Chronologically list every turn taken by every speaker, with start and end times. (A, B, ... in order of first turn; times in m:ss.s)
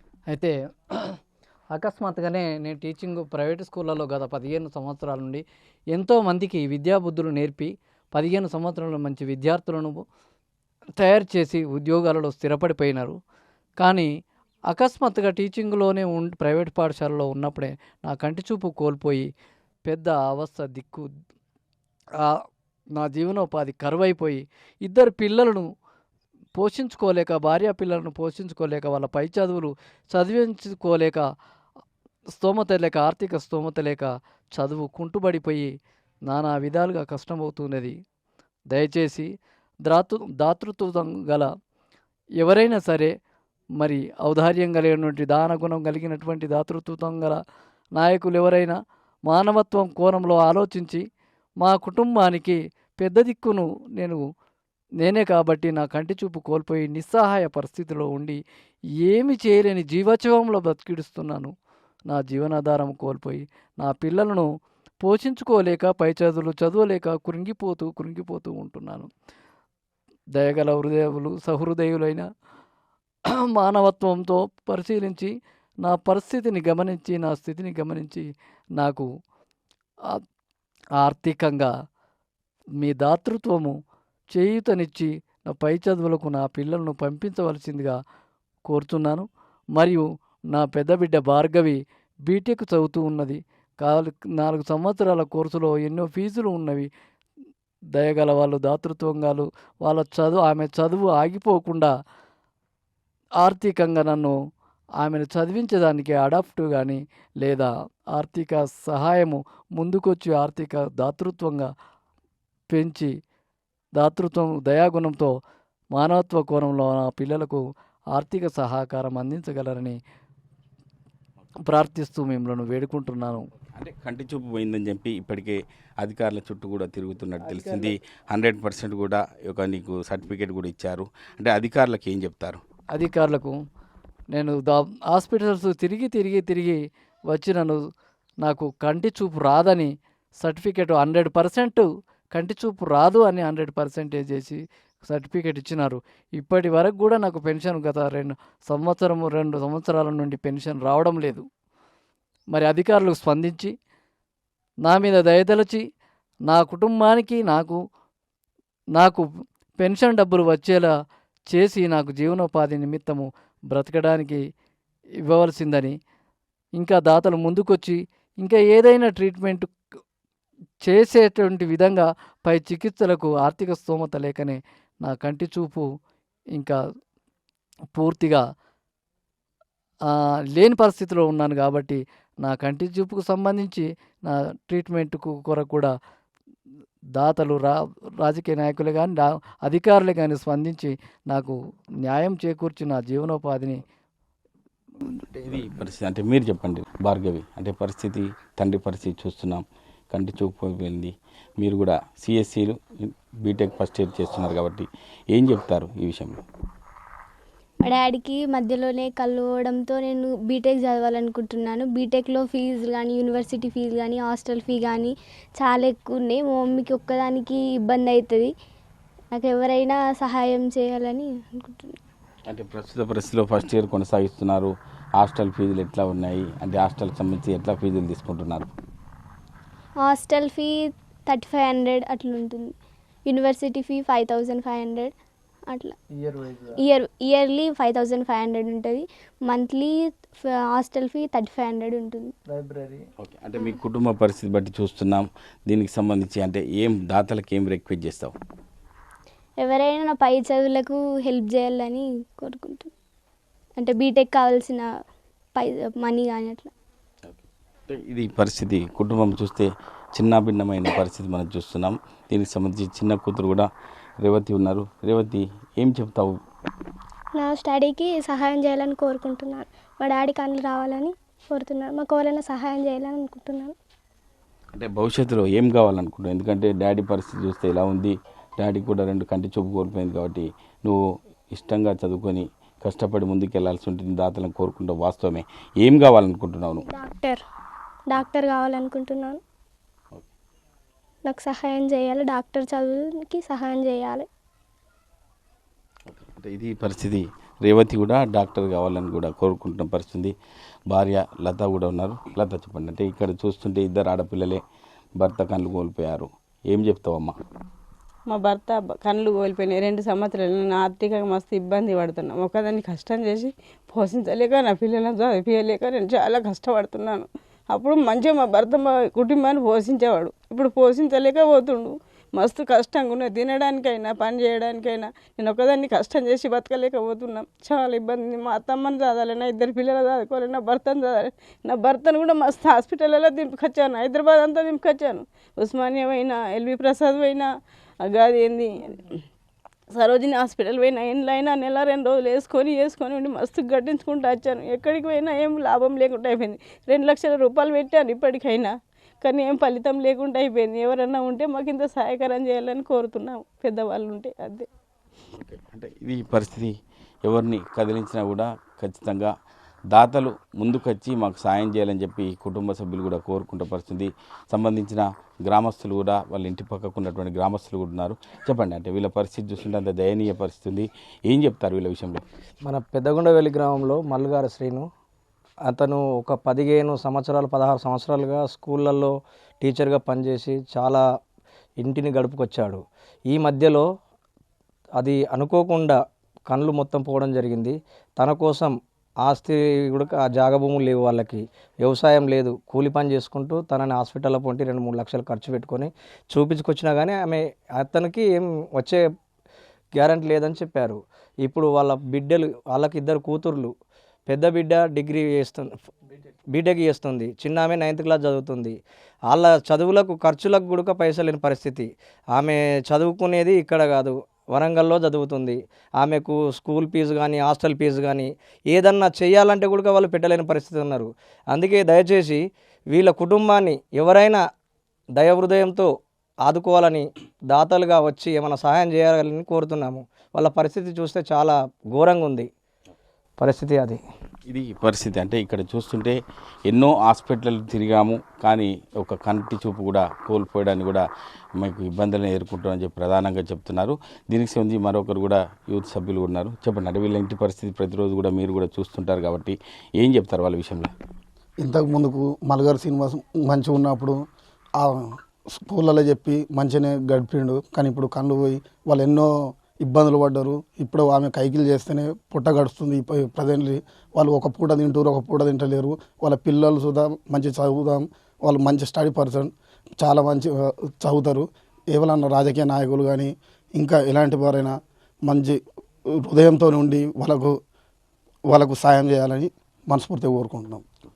0:00.3-0:01.1 A
0:01.7-0:10.0 A
0:11.0-0:13.2 A
0:13.8-0:14.1 A
0:14.7-0:19.3 A
0:19.9-0:21.1 A
0:23.0-0:25.7 A
0:26.6-0:31.2 A
0:32.3-0:35.7 A
0:36.3-0:37.9 A
0:38.7-0:39.3 A
0:39.8-0:41.5 A
0:42.4-0:43.1 A
0:43.8-0:47.4 A
0:48.0-0:48.8 A
0:49.3-0:51.0 A
0:51.6-0:54.2 A
0:55.0-0:58.4 A
0:59.0-1:01.5 A
1:02.1-1:04.5 A
1:05.0-1:09.1 A
1:10.4-1:12.2 A
1:13.5-1:15.3 A
1:15.8-1:18.2 A
1:18.8-1:19.1 A
1:21.0-1:21.7 A
1:22.8-1:23.7 A
1:24.3-1:28.0 A
1:28.7-1:36.9 A
1:37.9-1:41.9 A
1:43.4-1:44.3 A
1:45.0-1:51.7 A
1:52.7-1:53.1 A
1:54.0-1:55.3 A
1:55.9-1:57.6 A
1:58.1-2:00.0 A
2:01.7-2:03.4 A
2:03.8-2:12.6 B
2:07.4-2:07.9 A
2:12.9-2:13.6 A
2:14.3-2:17.8 A
2:18.4-2:19.9 A
2:20.4-2:31.4 A
2:32.5-2:33.7 A
2:34.8-2:35.8 A
2:36.5-2:37.8 A
2:39.0-2:39.2 A
2:39.8-2:40.9 A
2:41.5-2:44.4 A
2:45.3-2:46.0 A
2:46.8-2:49.7 A
2:50.9-2:55.8 A
2:57.9-2:58.4 A
3:00.5-3:05.9 A
3:07.2-3:13.8 A
3:15.4-3:26.4 B
3:27.8-3:38.5 C
3:39.3-3:42.0 C
3:42.5-3:48.7 B
3:50.0-3:52.7 C
3:53.2-3:55.1 C
3:55.7-3:55.9 C
3:56.1-3:56.8 A
3:56.8-4:02.3 C
4:02.5-4:03.0 A
4:03.2-4:08.4 B
4:09.6-4:12.9 C
4:13.8-4:14.9 C
4:15.6-4:16.7 C
4:17.3-4:23.7 B
4:24.2-4:26.4 B
4:27.4-4:33.7 D
4:34.8-4:41.0 B
4:41.5-4:46.8 B
4:46.9-4:47.4 D
4:48.1-4:49.4 D
4:51.2-4:54.3 D
4:56.1-5:00.3 B
5:00.9-5:04.6 B
5:05.2-5:07.4 B
5:08.3-5:37.5 E
5:38.0-5:39.2 E
5:39.9-5:54.7 E
5:55.4-5:56.7 B
5:57.3-5:59.3 B
5:59.9-6:12.2 B
6:12.7-6:14.8 F
6:15.7-6:21.0 F
6:21.8-6:23.8 F
6:25.0-6:26.0 F
6:26.5-6:39.0 F
6:40.0-6:43.7 F
6:44.3-6:45.7 F
6:46.5-6:48.8 F
6:49.3-7:02.4 F
7:02.9-7:04.4 F
7:05.2-7:05.9 F
7:06.4-7:12.5 F
7:13.4-7:14.0 F
7:14.5-7:16.2 B
7:16.7-7:21.0 B
7:21.6-7:30.9 B
7:31.6-7:34.2 G
7:34.8-7:54.8 G
7:55.3-7:55.6 G
7:56.2-7:57.5 G
7:58.5-8:00.8 G